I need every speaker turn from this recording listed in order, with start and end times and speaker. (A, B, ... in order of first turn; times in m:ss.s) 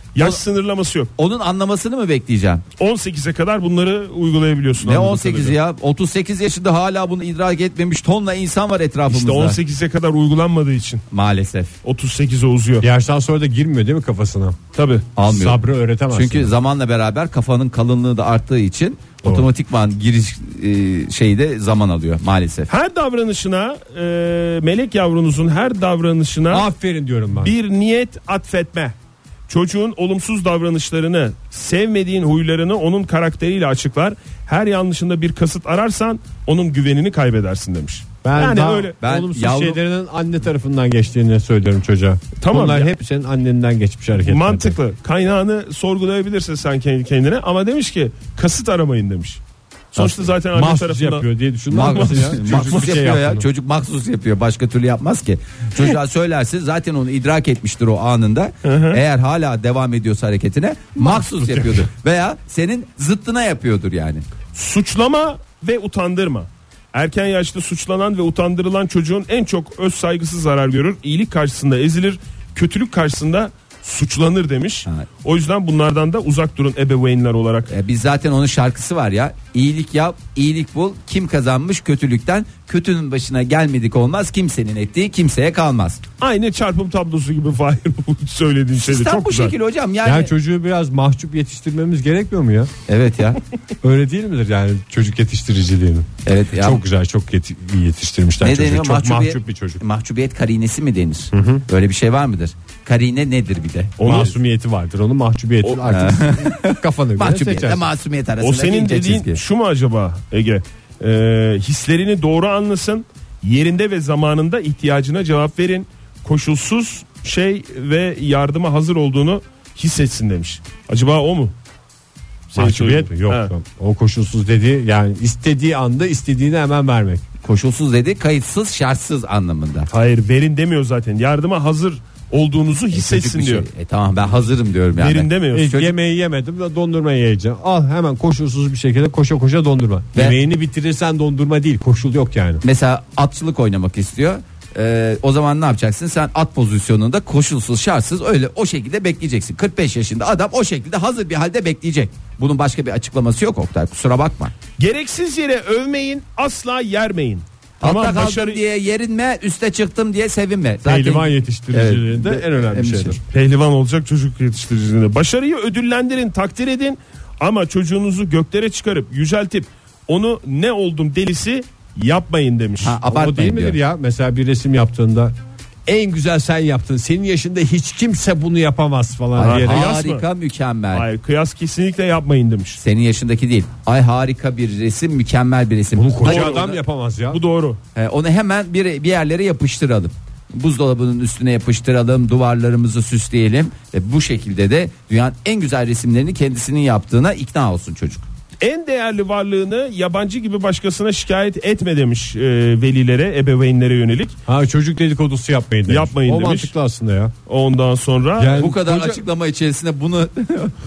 0:00.2-0:01.1 A
0:01.2-0:02.6 B
0:02.8-0:05.6 A
0:04.8-0:09.6 B
0:09.1-0:11.0 A
0:11.1-0:11.7 B
0:11.8-0:12.9 A
0:12.8-0:14.6 C
0:14.8-0:15.1 A
0:15.2-0:22.7 B
0:15.3-0:16.5 C
0:19.2-0:19.5 C
0:22.7-0:26.7 A
0:26.5-0:27.5 C
0:27.4-0:29.0 A
0:29.5-0:39.0 A
0:38.2-0:44.8 C
0:39.0-0:39.8 B
0:42.4-0:42.9 A
0:44.2-0:49.4 A
0:49.9-0:53.1 A
0:50.0-0:53.4 C
0:51.7-1:04.2 B
0:58.6-0:59.0 A
1:01.0-1:01.9 C
1:04.5-1:17.7 A
1:17.7-1:26.0 B
1:26.2-1:29.6 A
1:28.8-1:30.3 B
1:30.0-1:32.7 C
1:32.9-1:33.4 B
1:33.8-1:39.8 C
1:36.2-1:36.8 B
1:38.4-1:44.2 B
1:41.3-1:41.6 C
1:44.0-1:44.4 A
1:44.0-1:47.8 C
1:45.9-1:49.4 B
1:48.4-2:01.5 A
2:02.5-2:03.5 A
2:02.6-2:07.2 C
2:07.4-2:09.9 B
2:09.9-2:13.7 A
2:12.9-2:15.9 B
2:15.0-2:15.9 A
2:15.5-2:22.6 C
2:20.1-2:20.4 B
2:22.6-2:34.5 B
2:34.8-2:38.6 A
2:37.8-2:43.2 B
2:40.8-2:43.2 C
2:43.3-2:53.0 A
2:52.8-2:53.8 B
2:53.1-2:55.3 C
2:55.9-2:59.9 C
2:59.4-3:00.3 A
2:59.5-3:01.1 B
3:00.9-3:02.8 A
3:02.8-3:06.8 B
3:05.9-3:07.4 C
3:06.2-3:06.7 A
3:07.3-3:07.8 A
3:08.0-3:18.3 B
3:18.6-3:24.4 A
3:24.5-3:27.3 C
3:25.9-3:26.7 A
3:27.5-3:28.7 A
3:28.4-3:29.2 C
3:28.6-3:30.7 B